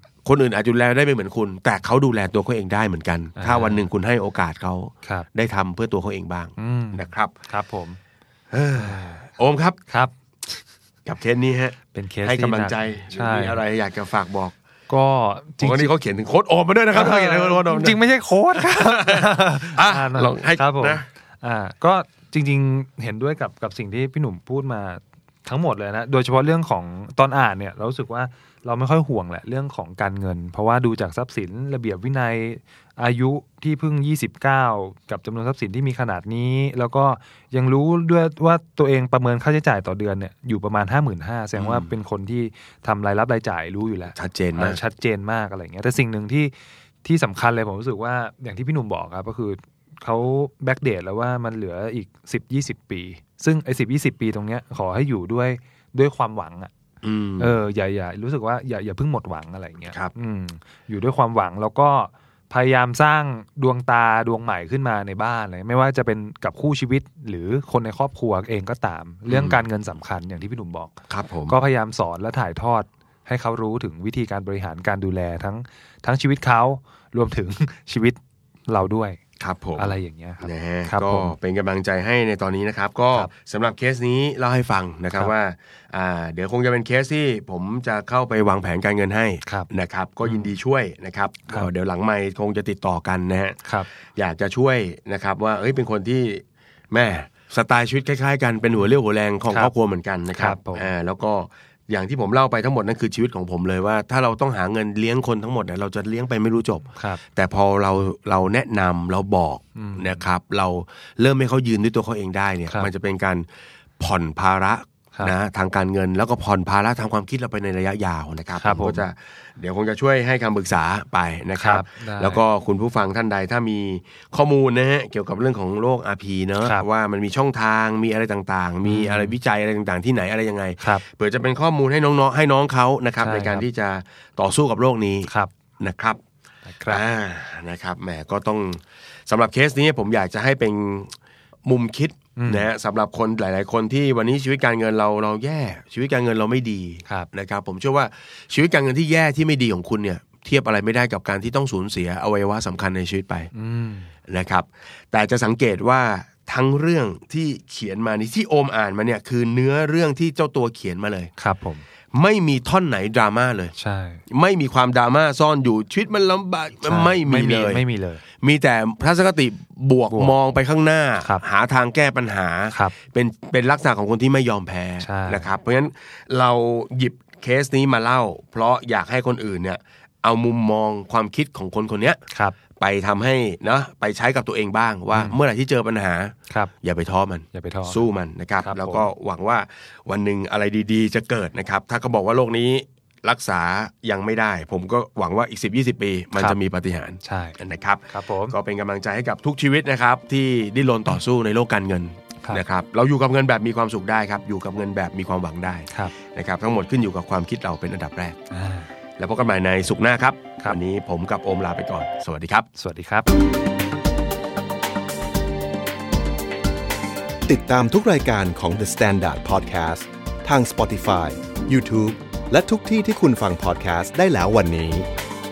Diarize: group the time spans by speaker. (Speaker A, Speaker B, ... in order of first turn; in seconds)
Speaker A: 0.2-7.3, 8.5-9.8, 11.1-14.5, 15.6-18.0, 18.6-21.0, 41.5-41.9, 44.1-44.8, 57.0-57.6, 69.3-69.6, 71.1-71.6, 79.4-93.6, 94.1-113.5, 114.0-136.2, 136.9-141.1, 141.7-153.5, 154.3-161.3, 162.1-163.7, 164.3-167.8, 168.4-182.2, 182.8-208.4, 209.2-212.7
Speaker B: 3.4-3.9, 6.6-8.0, 8.8-9.1, 9.9-10.1, 11.9-13.6, 14.9-15.9, 16.9-56.7, 57.4-70.9, 71.5-79.2, 79.8-81.3, 90.2-90.5, 100.3-100.9, 107.0-107.2, 109.8-110.2, 118.6-119.1, 121.6-122.4, 128.8-129.4, 130.8-131.0, 133.2-133.7, 135.3-135.5, 136.7-137.0, 142.4-142.7, 153.5-154.1, 161.4-161.8, 163.8-164.2, 166.8-168.2, 170.1-170.4, 172.7-173.0, 175.0-175.5, 182.3-182.6, 187.5-188.0, 188.6-189.1, 197.2-197.6, 198.1-198.6, 205.9-206.1, 208.5-208.9, 212.8-213.4
Speaker C: 217.5-225.1